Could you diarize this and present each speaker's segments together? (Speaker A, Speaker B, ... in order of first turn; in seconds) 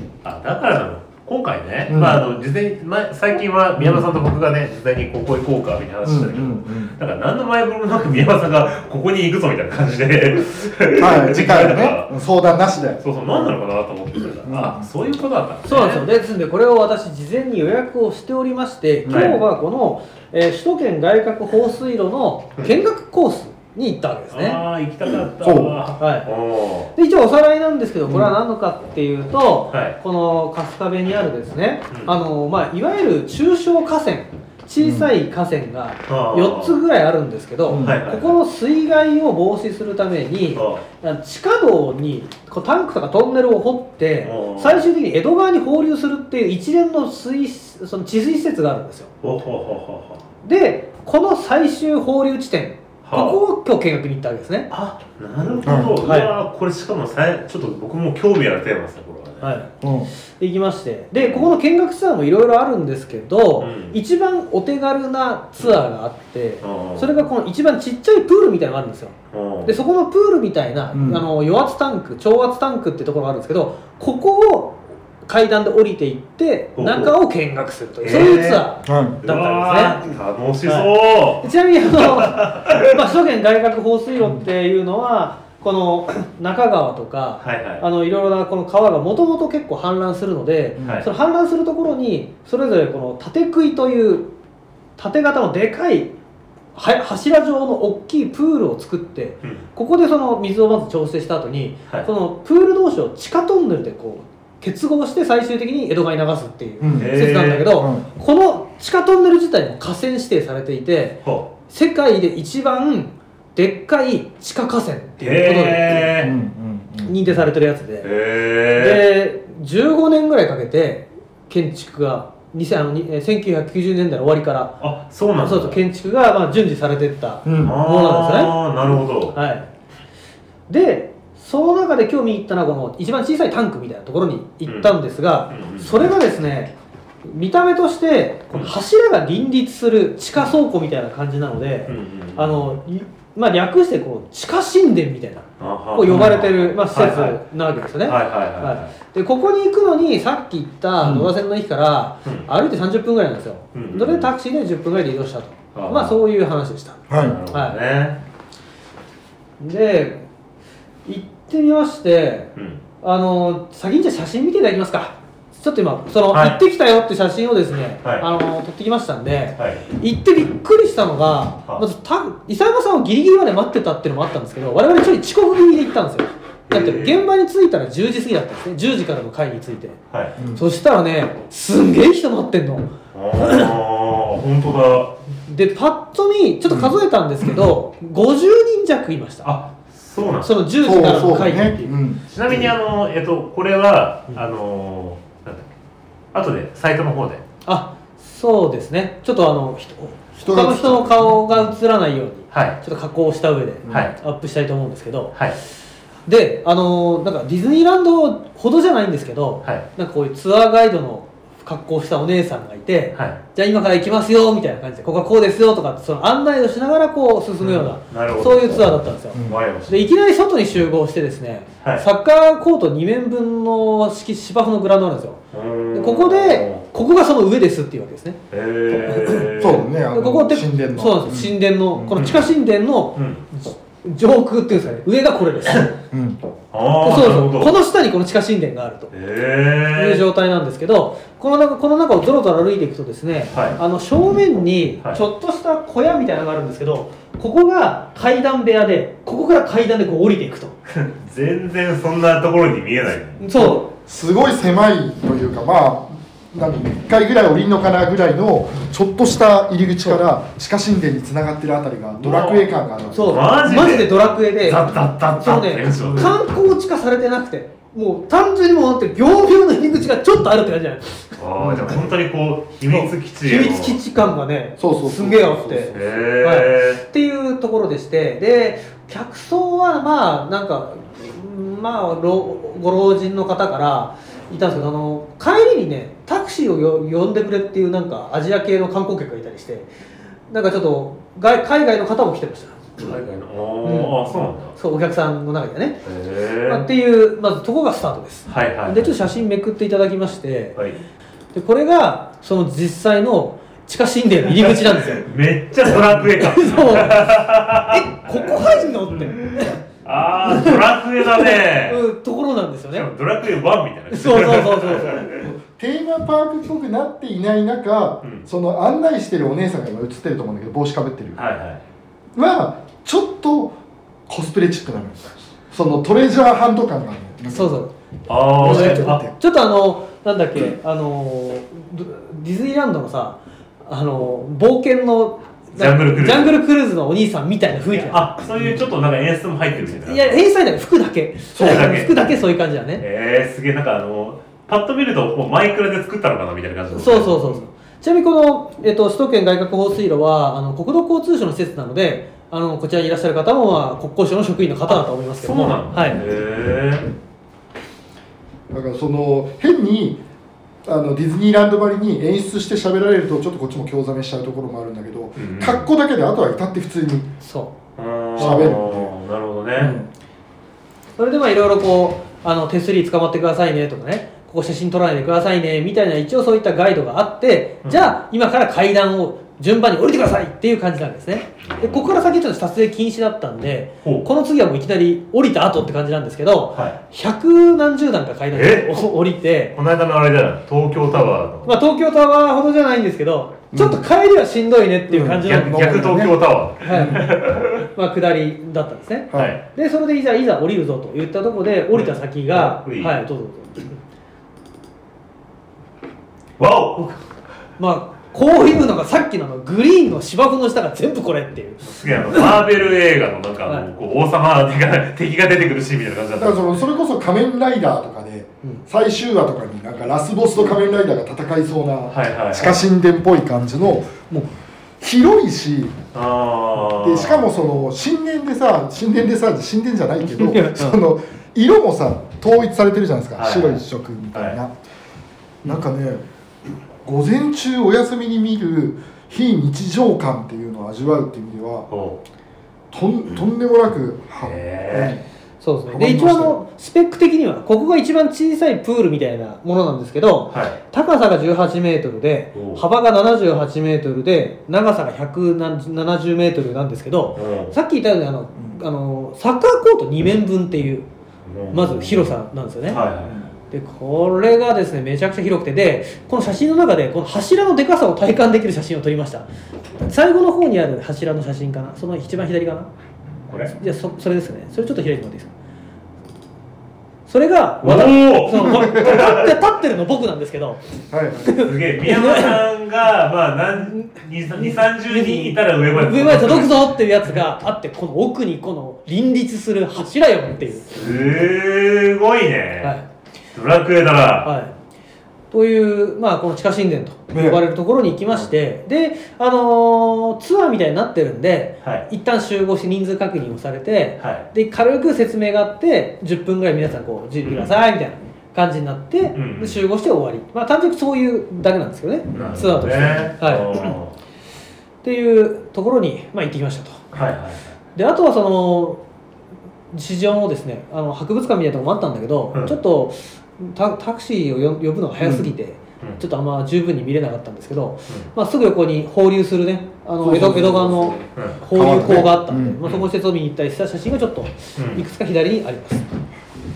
Speaker A: 0.2-12.1, 13.0-16.1, 19.1-19.4, 24.3-26.9, 29.7-30.0, 36.1-36.8, 37.8-38.4, 40.5-40.8, 44.2-44.8, 49.2-50.2, 53.0-53.4, 54.7-59.5, 61.2-61.5, 63.6-64.0, 66.6-67.1, 69.3-69.8, 76.8-77.1, 78.0-78.7, 79.2-82.9, 87.4-87.8, 106.9-107.8, 115.2-116.3, 118.0-119.0, 124.8-125.8, 127.6-129.3, 134.7-135.0, 135.5-136.0, 141.9-142.8, 145.6-147.4, 148.0-148.9, 153.7-154.3, 155.7-156.2, 157.1-158.2, 162.6-162.8, 166.3-166.6, 169.6-169.8, 176.7-177.2, 180.1-180.3, 183.1-185.2, 189.4-190.6, 192.3-195.7, 196.3-197.4, 202.5-202.8, 203.9-204.1, 213.1-213.4, 217.6-218.8, 219.4-220.1, 225.5-226.8, 228.5-229.8, 232.1-232.5, 233.1-233.4, 235.6-235.9, 236.7-237.8, 239.1-240.2, 243.5-243.8, 250.9-253.4, 262.2-266.4, 271.4-274.0, 275.9-277.0, 293.0-294.7, 296.0-296.9, 298.5-299.2, 305.1-312.0, 312.9-315.5, 321.4-321.8, 328.3-329.2, 335.7-336.6, 337.9-340.4, 341.5-342.3, 343.0-347.6, 354.9-357.1, 365.4-365.8, 368.0-370.0, 377.8-378.1, 381.7-382.3, 384.0-384.3, 388.5-389.1, 389.7-391.7, 395.4-397.9, 399.3-399.6, 401.9-403.1, 406.6-407.1, 411.8-416.8, 422.1-422.8, 426.1-427.5, 433.4-433.8, 434.3-434.6, 441.9-442.2, 444.4-445.2, 450.5-450.8, 452.5-452.8, 457.4-457.8, 461.5-462.3, 462.9-463.4, 473.5-473.7, 477.8-479.5, 481.4-486.9, 490.9-493.0, 493.5-494.5, 504.2-504.4, 507.4-507.7, 509.3-509.8, 512.3-514.1, 517.1-517.8, 531.3-532.2, 532.8-533.1, 534.8-535.0
Speaker B: 1.9-2.2, 3.8-4.1, 6.0-6.9, 10.9-13.5, 14.4-14.9, 19.1-19.3, 25.4-25.8, 34.8-35.1, 37.7-38.0, 55.6-56.0, 59.8-60.1, 70.9-71.2, 78.8-79.2, 84.2-84.5, 90.8-91.0, 106.8-107.2, 107.8-108.0, 116.2-117.1, 127.4-127.8, 151.0-151.3, 157.1-157.4, 180.4-180.6, 190.8-192.6, 200.4-201.4, 203.8-204.1, 219.3-219.6, 229.6-232.2, 236.1-236.4, 253.6-263.4, 271.6-272.0, 274.8-276.2, 315.4-321.4, 322.4-323.8, 324.3-327.8, 328.6-329.3, 341.5-341.8, 358.7-360.2, 360.8-367.3, 368.4-369.1, 369.8-370.1, 393.7-394.0, 395.1-396.1, 396.9-397.2, 416.4-424.4, 425.0-426.0, 426.8-434.7, 435.6-436.2, 437.0-441.9, 442.9-445.2, 445.9-446.6, 478.7-479.3, 481.1-481.5, 497.3-497.6, 525.2-525.5, 530.2-532.8
Speaker C: 15.7-24.6, 26.0-26.3, 26.9-49.1, 50.4-54.7, 55.8-56.3, 59.4-59.7, 60.4-80.0, 80.7-94.3, 95.0-96.1, 96.7-116.1, 117.0-118.1, 118.7-124.8, 125.4-128.6, 129.3-129.7, 130.7-157.8, 159.6-160.2, 161.1-162.5, 163.0-180.0, 180.5-183.7, 185.4-189.5, 190.4-192.0, 197.6-205.3, 206.3-225.4, 225.9-228.4, 229.0-229.5, 230.1-235.9, 237.0-239.1, 239.9-250.8, 253.4-253.9, 263.1-271.4, 272.9-289.9, 290.5-293.1, 293.8-294.2, 294.7-296.0, 296.6-300.8, 301.5-305.3, 305.9-307.2, 307.9-309.8, 310.5-313.1, 314.1-315.3, 327.5-327.9, 328.6-338.3, 340.0-343.0, 346.9-356.2, 367.4-367.7, 368.4-368.7, 371.2-389.7, 391.6-404.0, 407.8-412.5, 430.2-431.0, 445.6-461.1, 461.7-463.0, 463.7-469.4, 470.0-472.9, 473.7-475.5, 477.3-480.8, 481.4-482.6, 483.8-490.9, 494.4-494.7, 495.5-513.8, 515.0-517.0, 517.9-519.0, 519.9-536.1